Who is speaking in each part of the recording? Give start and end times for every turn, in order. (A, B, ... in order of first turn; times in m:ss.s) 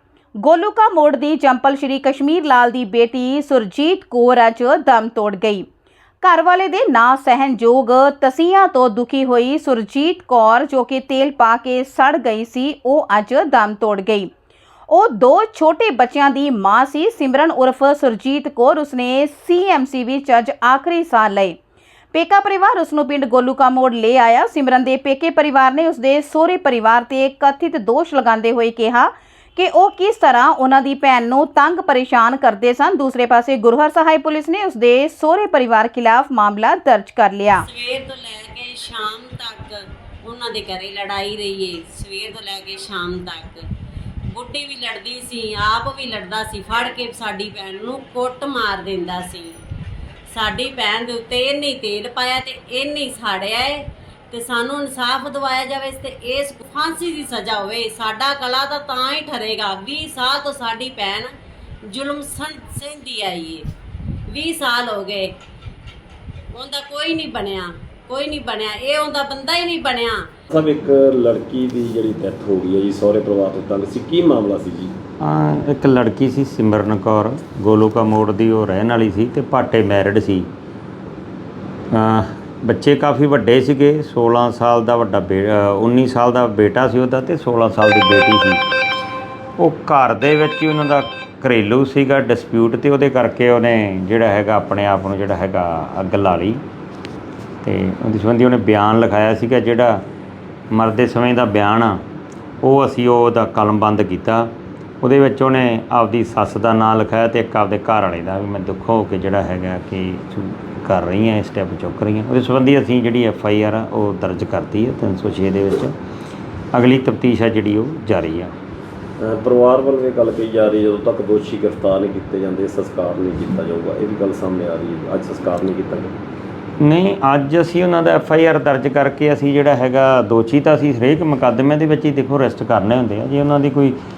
0:00.4-0:05.7 A
0:06.2-0:14.3 A
0:14.9-0:21.6 A
0:22.1-0:37.6 A
0:37.6-0:43.7 B
0:44.3-0:49.6 B
0:50.3-1:01.3 B
1:01.9-1:03.7 B
1:04.3-1:05.3 B
1:06.5-1:10.3 B
1:10.5-1:14.9 C
1:15.2-1:20.5 D
1:21.9-1:28.6 D
1:29.6-1:36.6 D
1:37.6-1:40.0 D
1:40.7-1:42.0 D
1:42.6-1:44.5 D
1:45.0-1:55.9 D
1:56.7-1:58.5 D
1:59.2-2:06.1 C
2:06.8-2:14.0 D